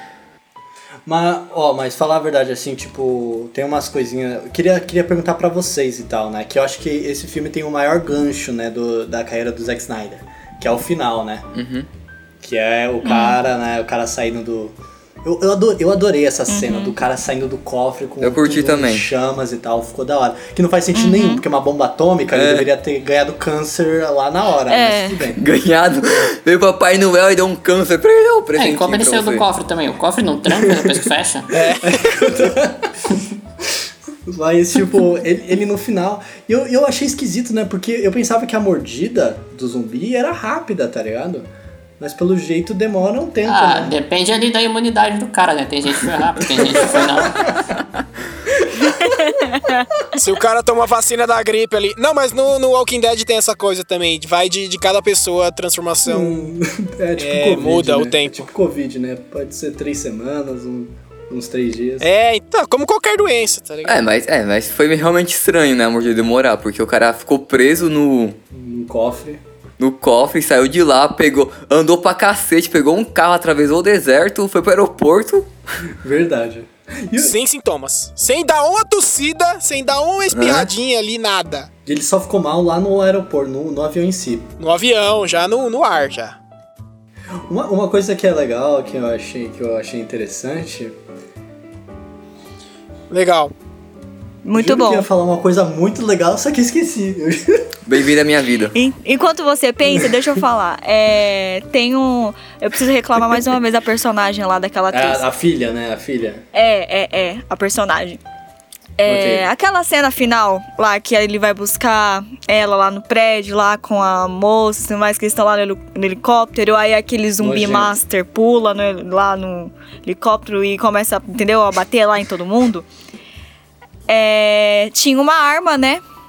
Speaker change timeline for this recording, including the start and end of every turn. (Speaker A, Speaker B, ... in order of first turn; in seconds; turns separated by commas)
Speaker A: 1.1-11.5, Speaker B: 11.5-11.9, Speaker A: 12.4-25.4, Speaker C: 13.0-13.4, Speaker C: 16.5-16.9, Speaker B: 18.2-19.1, Speaker C: 20.9-21.4, Speaker B: 22.3-22.7, Speaker C: 24.7-25.2, Speaker B: 25.4-29.5, Speaker D: 28.5-31.6, Speaker E: 31.5-32.2, Speaker A: 31.8-33.0, Speaker A: 34.2-41.5, Speaker A: 42.0-43.9, Speaker D: 43.4-47.5, Speaker A: 46.9-47.7, Speaker A: 48.5-49.1, Speaker C: 49.3-49.8, Speaker E: 50.1-56.5, Speaker A: 56.0-62.1, Speaker E: 57.2-58.5, Speaker E: 62.0-64.0, Speaker B: 63.8-68.4, Speaker A: 68.5-69.4, Speaker B: 69.8-75.5, Speaker A: 76.0-77.3, Speaker E: 77.2-81.7, Speaker B: 80.3-80.7, Speaker A: 81.8-84.5, Speaker E: 84.6-86.4, Speaker A: 87.5-91.0, Speaker E: 93.1-93.5, Speaker C: 94.4-95.1, Speaker A: 94.5-97.7, Speaker B: 97.8-98.7, Speaker C: 98.7-105.2, Speaker A: 104.9-106.4, Speaker C: 106.5-108.2, Speaker C: 109.0-122.9, Speaker A: 109.0-109.5, Speaker A: 117.4-118.0, Speaker C: 124.1-126.0